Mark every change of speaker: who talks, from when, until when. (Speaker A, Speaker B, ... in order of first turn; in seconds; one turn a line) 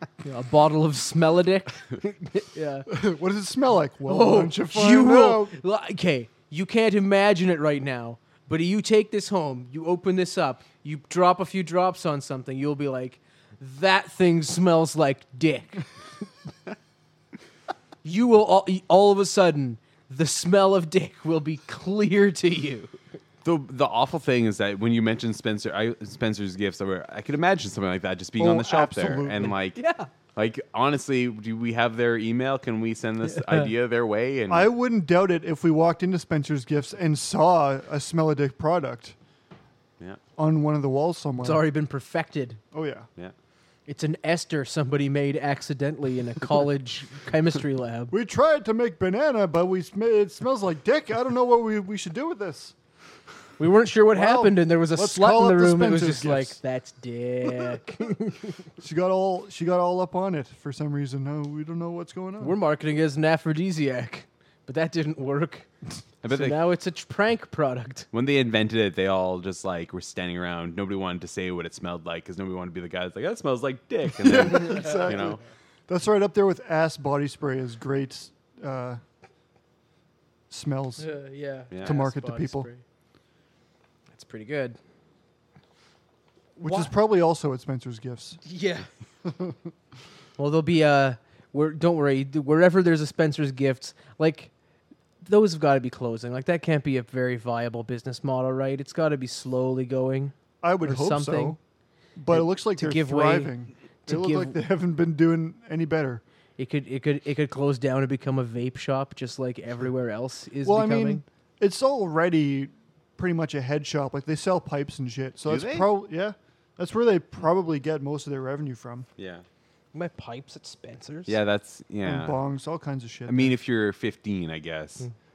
Speaker A: 0.2-2.9
Speaker B: 2.9-5.6
Speaker A: 4.1-15.9
Speaker A: 18.0-22.9
Speaker C: 23.4-29.8
Speaker B: 28.4-29.6
Speaker A: 29.8-30.1
Speaker C: 30.4-34.7
Speaker A: 33.3-33.7
Speaker B: 34.5-39.2
Speaker B: 40.4-41.6
Speaker A: 41.4-42.6
Speaker B: 42.7-43.1
Speaker A: 43.9-48.1
Speaker B: 48.1-52.8
Speaker A: 53.6-58.7
Speaker B: 54.1-56.6
Speaker B: 58.8-62.6
Speaker A: 62.4-65.7
Speaker C: 66.2-66.6
Speaker A: 66.3-68.1
Speaker C: 68.1-75.4
Speaker B: 74.2-79.0
Speaker A: 74.7-75.1
Speaker B: 80.5-81.1
Speaker A: 81.0-82.8
Speaker C: 81.7-82.0
Speaker B: 81.8-82.7
Speaker A: 84.1-84.8
Speaker B: 86.6-88.4
Speaker A: 86.6-86.9
Speaker A: 88.4-88.9
Speaker B: 89.2-89.7
Speaker A: 90.4-94.5
Speaker A: 95.2-101.6
Speaker B: 100.6-101.6
Speaker B: 102.2-106.2
Speaker A: 102.3-103.5
Speaker A: 104.1-104.6
Speaker A: 106.6-111.2
Speaker B: 110.6-119.1
Speaker C: 115.5-115.9
Speaker C: 119.2-119.5
Speaker A: 119.9-121.4
Speaker C: 121.3-122.4
Speaker B: 122.0-123.5
Speaker C: 123.3-125.1